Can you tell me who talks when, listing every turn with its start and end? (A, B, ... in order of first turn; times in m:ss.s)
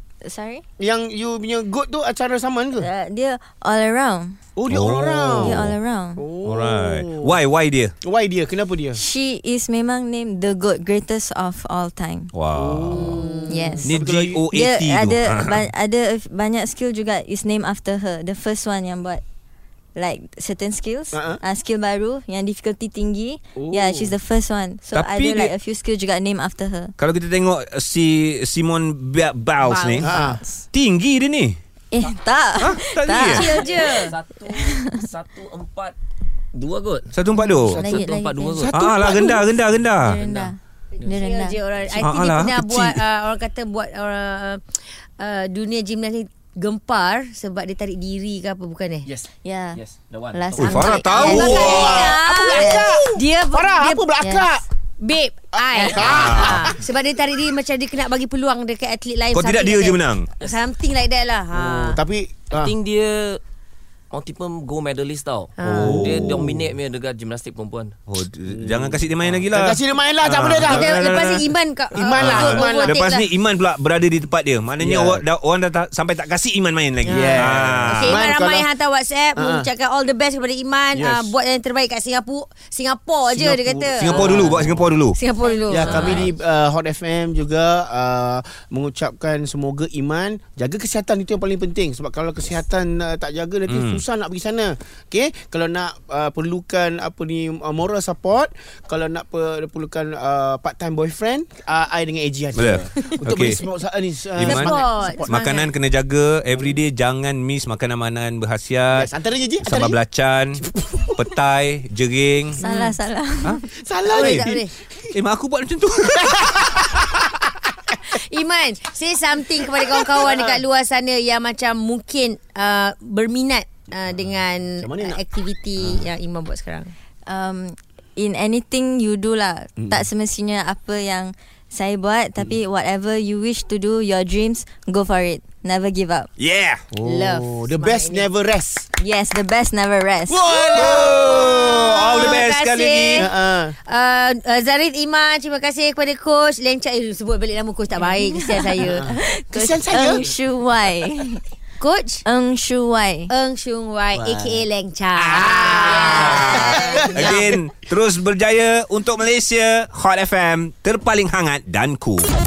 0:00.2-0:00.6 A
0:00.8-0:02.9 B
0:02.8-0:04.4 A
0:04.6-0:07.3 B
0:04.7-0:05.7 C
0:05.4-0:06.2 A
0:06.4-0:07.9 C
0:08.0-0:09.0 B
0:09.0-0:12.3 A
0:12.3-0:13.2 C
0:12.5-0:14.4 B
0:13.1-0:13.8 D
0:13.5-0:13.9 A
0:13.8-0:15.6 C
0:14.5-0:19.2 A
0:20.0-0:27.0 A
0:21.1-0:21.4 B
0:23.6-0:24.2 B
0:24.9-0:25.5 C
0:27.0-0:31.6 C
0:29.6-0:30.4 D
0:30.0-0:30.4 B
0:31.9-0:33.7 A
0:32.6-0:33.5 C
0:33.2-0:34.2 D
0:33.4-0:36.0 E
0:34.5-0:35.0 A
0:36.5-0:37.1 E
0:37.1-0:37.8 C
0:37.4-0:38.0 B
0:37.4-0:39.4 A
0:37.7-0:38.7 E
0:38.5-0:39.5 B
0:38.7-0:40.2 C
0:40.0-0:41.6 A
0:40.1-0:41.1 E
0:41.0-0:49.1 D
0:42.0-0:43.0 C
0:49.0-0:51.0 E
0:49.4-0:49.8 A
0:50.3-0:51.9 A
0:50.6-0:52.1 C
0:51.1-0:54.0 D
0:51.2-0:54.6 B
0:52.5-0:53.0 A
0:54.2-0:54.4 A
0:55.0-1:02.0 D
0:55.5-0:56.8 B
0:56.0-0:56.7 C
0:59.3-1:00.3 C
1:01.6-1:02.7 B
1:02.6-1:03.4 E
1:04.1-1:08.0 E
1:05.6-1:06.0 D
1:05.7-1:06.5 C
1:05.8-1:06.2 B
1:08.1-1:11.5 C
1:08.5-1:08.9 B
1:09.5-1:11.0 B
1:10.6-1:13.3 D
1:11.9-1:13.0 B
1:12.1-1:18.2 C
1:14.8-1:15.2 B
1:17.0-1:26.3 D
1:17.0-1:18.7 B
1:19.4-1:19.7 B
1:23.3-1:24.8 B
1:24.0-1:25.2 C
1:25.7-1:45.4 B
1:25.8-1:26.3 C
1:33.7-1:34.0 C
1:42.6-1:43.6 C
1:44.4-1:49.1 C
1:44.4-1:45.7 D
1:48.9-1:50.0 B
1:49.6-1:50.6 C
1:50.6-1:51.3 B
1:51.2-1:53.6 C
1:52.6-1:53.6 A
1:53.8-1:54.6 B
1:54.1-1:54.7 D
1:54.1-1:54.5 C
1:55.1-1:56.8 C
1:56.0-1:57.1 B
1:58.0-2:06.9 D
2:04.8-2:05.2 B
2:07.2-2:16.3 A
2:16.4-2:16.9 C
2:16.9-2:18.9 B
2:17.0-2:18.2 D
2:19.0-2:20.4 A
2:20.3-2:22.3 B
2:20.4-2:23.3 C
2:20.8-2:23.3 D
2:23.2-2:23.7 B
2:23.9-2:29.1 D
2:28.0-2:31.4 A
2:28.8-2:30.2 B
2:31.8-2:32.2 D
2:32.2-2:33.3 A
2:33.3-2:37.5 D
2:34.1-2:34.6 B
2:35.2-2:42.2 C
2:35.4-2:37.5 B